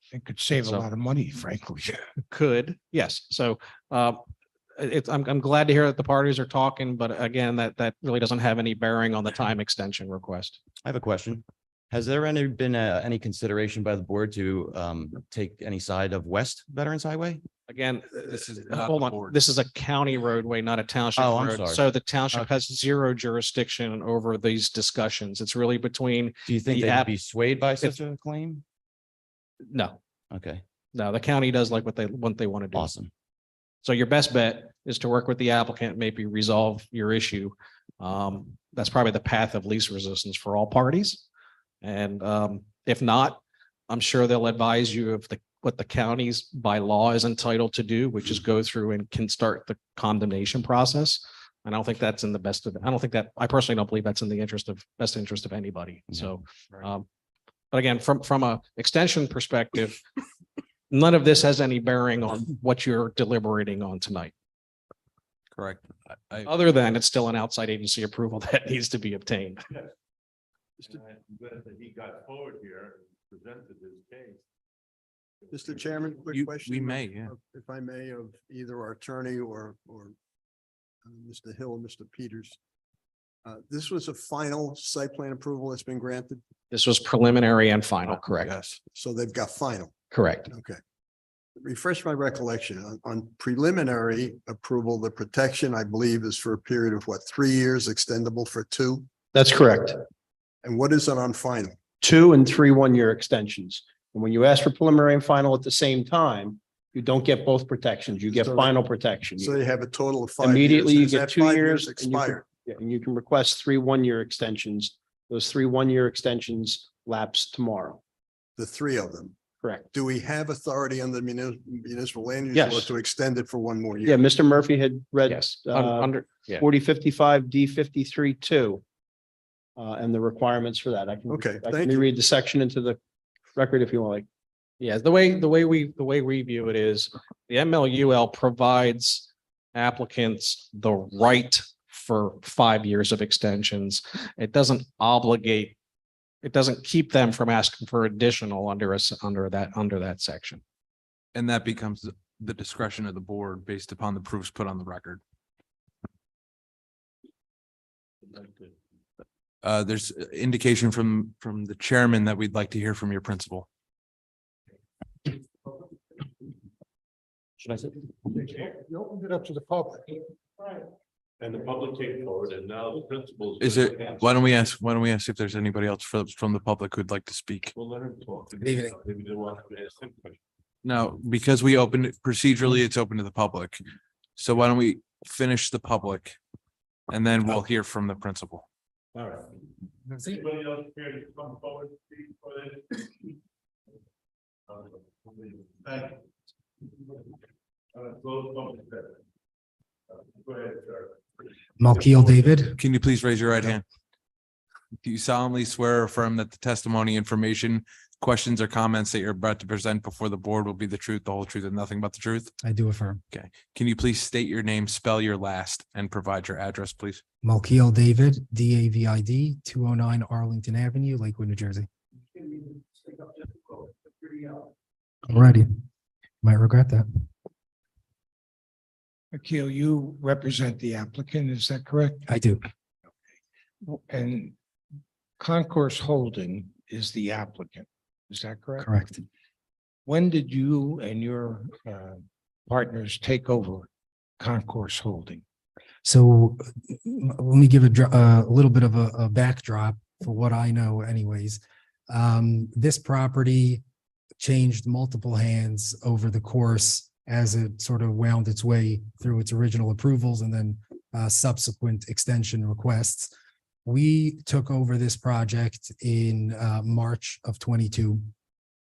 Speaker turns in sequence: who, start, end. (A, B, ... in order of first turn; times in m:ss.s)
0:00.1-0:02.0 A
0:00.6-0:00.9 B
0:02.3-0:04.2 B
0:04.8-0:10.6 B
0:10.8-0:17.4 C
0:17.7-0:27.1 B
0:18.3-0:19.4 D
0:21.1-0:22.5 C
0:26.4-0:28.6 C
0:29.7-0:30.0 B
0:30.3-0:30.6 C
0:30.9-0:32.9 B
0:32.7-0:33.1 C
0:33.8-0:41.2 B
0:41.8-0:57.0 B
0:57.7-1:00.0 B
1:00.9-1:04.3 B
1:05.5-1:06.5 D
1:06.4-1:09.6 B
1:10.8-1:14.4 E
1:15.5-1:20.1 F
1:16.3-1:17.3 D
1:21.0-1:22.6 F
1:23.4-1:26.4 F
1:26.7-1:28.5 B
1:28.1-1:28.8 D
1:28.9-1:29.9 F
1:30.1-1:30.5 B
1:30.5-1:30.8 F
1:31.6-1:39.1 F
1:39.3-1:40.0 G
1:40.6-1:41.8 F
1:42.0-1:49.6 G
1:48.3-1:48.8 F
1:49.4-1:52.4 F
1:50.4-1:58.0 G
1:58.6-1:59.4 F
1:59.6-1:59.9 G
1:59.9-2:04.2 F
2:02.5-2:02.9 G
2:04.0-2:08.8 G
2:05.3-2:06.6 B
2:09.8-2:13.0 G
2:11.3-2:12.0 F
2:13.5-2:14.2 G
2:14.8-2:25.8 B
2:26.4-2:30.6 B
2:31.3-2:35.2 D
2:39.6-2:43.7 D
2:47.6-2:47.9 C
2:48.9-2:50.1 A
2:51.4-2:54.5 E
2:53.6-2:57.7 D
2:57.7-3:00.4 E
2:58.6-2:59.0 H
3:00.8-3:03.8 D
3:04.4-3:06.4 D
3:07.1-3:08.6 D
3:09.1-3:09.5 E
3:10.1-3:10.4 H
3:10.3-3:13.0 E
3:14.7-3:16.2 E
3:17.9-3:19.2 E
3:20.1-3:21.2 E
3:21.8-3:22.8 H
3:22.8-3:23.8 D
3:25.0-3:32.5 D
3:32.6-3:33.2 H
3:33.3-3:37.2 D
3:37.4-3:41.9 H
3:45.2-3:45.7 H
3:46.4-3:47.2 H
3:49.3-3:52.3 A
3:52.2-3:52.6 H
3:53.8-3:54.5 A
3:55.4-3:58.9 A
3:58.8-3:59.2 H
4:00.0-4:03.9 A
4:04.4-4:05.4 A
4:06.0-4:13.8 H
4:14.4-4:23.3 H
4:23.8-4:28.2 H